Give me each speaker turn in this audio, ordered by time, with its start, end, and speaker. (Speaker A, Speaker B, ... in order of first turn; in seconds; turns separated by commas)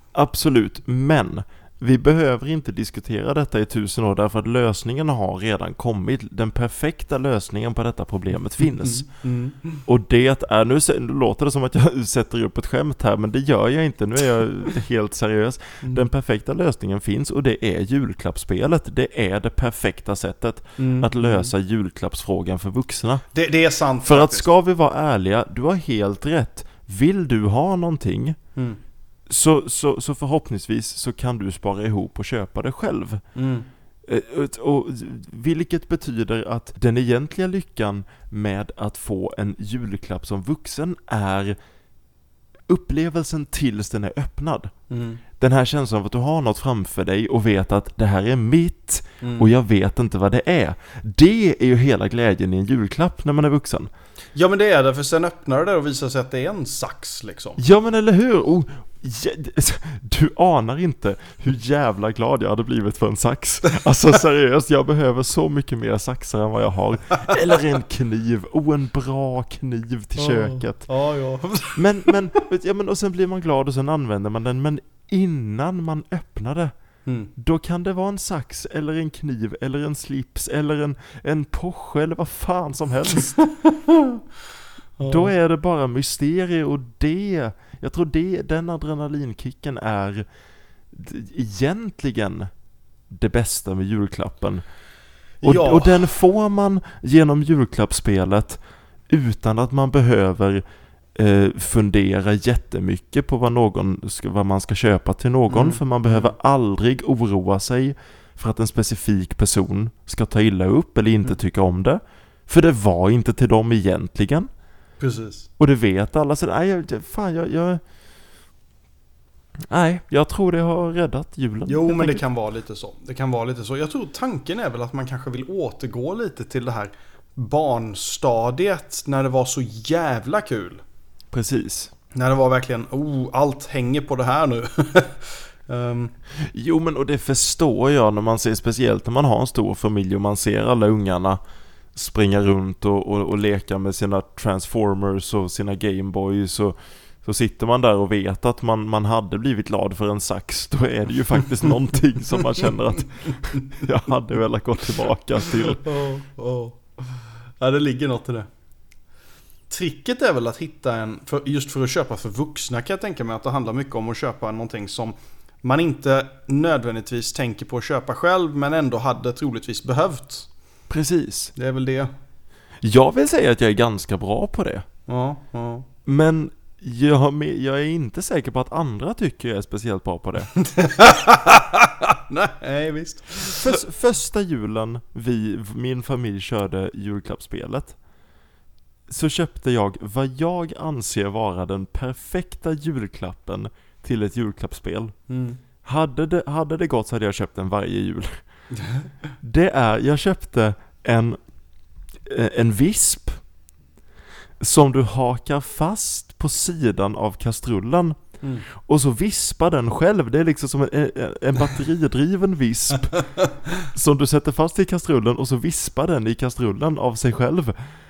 Speaker A: 0.1-9.1, Speaker B: 8.8-9.8, Speaker A: 9.8-23.2, Speaker B: 20.8-21.5, Speaker B: 23.3-24.4, Speaker A: 24.0-28.4, Speaker A: 29.3-33.2, Speaker B: 33.4-33.7, Speaker A: 34.0-41.6, Speaker A: 42.7-44.7, Speaker B: 44.9-45.2, Speaker A: 45.4-53.9, Speaker B: 49.2-49.5, Speaker B: 54.3-57.6, Speaker A: 57.6-70.9, Speaker B: 70.2-72.2, Speaker A: 71.8-76.7, Speaker B: 77.0-77.3, Speaker A: 77.3-83.3, Speaker B: 85.0-85.3, Speaker A: 85.0-90.2, Speaker A: 90.9-92.5, Speaker A: 93.1-94.6, Speaker B: 95.4-96.0, Speaker A: 95.4-100.6, Speaker A: 101.1-114.5, Speaker B: 105.5-106.3, Speaker B: 115.0-115.5, Speaker A: 115.6-117.8, Speaker A: 119.7-122.2, Speaker B: 121.7-130.8, Speaker A: 131.3-131.9, Speaker B: 132.1-136.1, Speaker A: 136.4-141.4, Speaker A: 141.9-155.8, Speaker B: 155.7-158.5, Speaker B: 159.7-170.5, Speaker A: 170.9-171.5, Speaker B: 171.5-172.1, Speaker A: 172.8-174.8, Speaker B: 175.1-175.8, Speaker A: 176.1-180.5, Speaker B: 180.6-183.8, Speaker A: 183.5-188.0, Speaker A: 189.1-195.2, Speaker B: 195.3-195.6, Speaker A: 195.8-198.4, Speaker B: 198.7-199.1, Speaker A: 199.4-201.4, Speaker A: 202.2-203.4, Speaker A: 204.6-208.2, Speaker A: 208.7-213.2, Speaker B: 213.2-213.8, Speaker A: 213.9-217.8